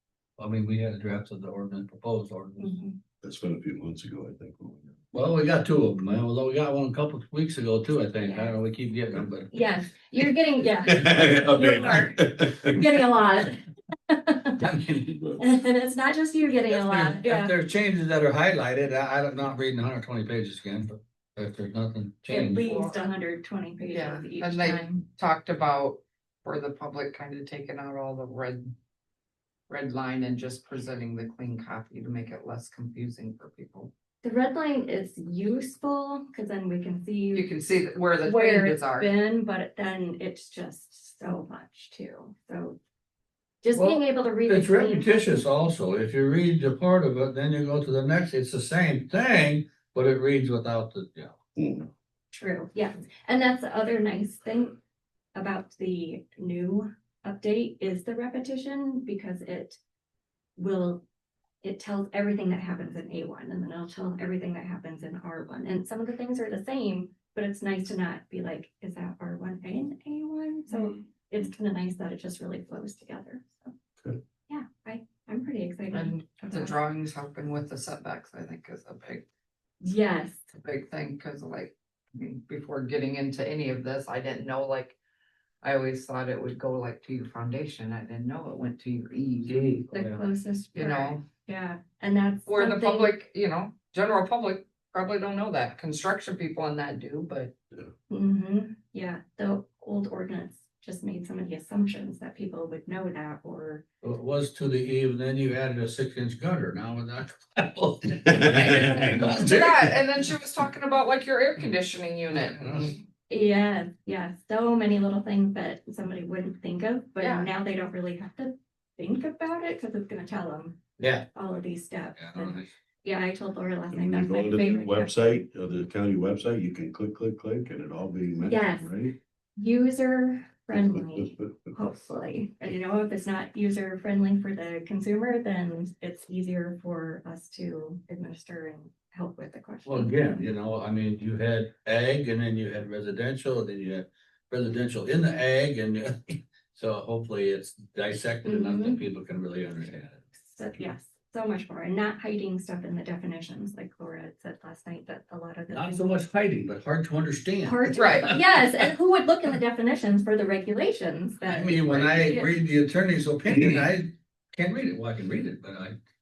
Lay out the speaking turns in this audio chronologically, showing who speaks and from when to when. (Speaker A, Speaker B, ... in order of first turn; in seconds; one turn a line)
Speaker A: 0.4-2.7
Speaker B: 2.6-3.0
Speaker C: 3.2-5.0
Speaker A: 5.1-9.5
Speaker B: 8.2-8.6
Speaker B: 9.5-14.6
Speaker C: 10.9-12.8
Speaker A: 14.6-15.4
Speaker B: 15.4-17.5
Speaker A: 16.7-22.7
Speaker B: 22.3-25.0
Speaker D: 22.3-23.0
Speaker D: 23.9-28.7
Speaker D: 29.7-33.9
Speaker B: 34.2-37.5
Speaker D: 37.3-39.1
Speaker B: 38.2-42.8
Speaker B: 43.6-45.5
Speaker A: 43.7-51.4
Speaker C: 51.6-51.9
Speaker B: 52.3-54.8
Speaker B: 55.4-59.8
Speaker B: 60.6-61.0
Speaker B: 61.6-73.7
Speaker B: 74.5-76.8
Speaker D: 75.9-79.2
Speaker B: 79.8-80.4
Speaker D: 80.5-85.0
Speaker D: 85.6-90.0
Speaker B: 89.9-93.1
Speaker A: 90.0-90.2
Speaker D: 90.8-91.2
Speaker D: 92.5-97.5
Speaker B: 98.1-103.8
Speaker A: 104.0-110.0
Speaker D: 108.7-113.0
Speaker A: 112.4-112.9
Speaker B: 113.3-125.3
Speaker D: 117.2-117.5
Speaker A: 121.0-121.3
Speaker A: 122.2-122.7
Speaker C: 123.9-129.1
Speaker B: 128.4-128.9
Speaker B: 129.6-140.5
Speaker A: 139.8-150.2
Speaker B: 148.4-149.0
Speaker B: 150.4-156.2
Speaker A: 155.7-158.4
Speaker B: 157.6-162.5
Speaker D: 157.9-158.3
Speaker A: 161.5-166.0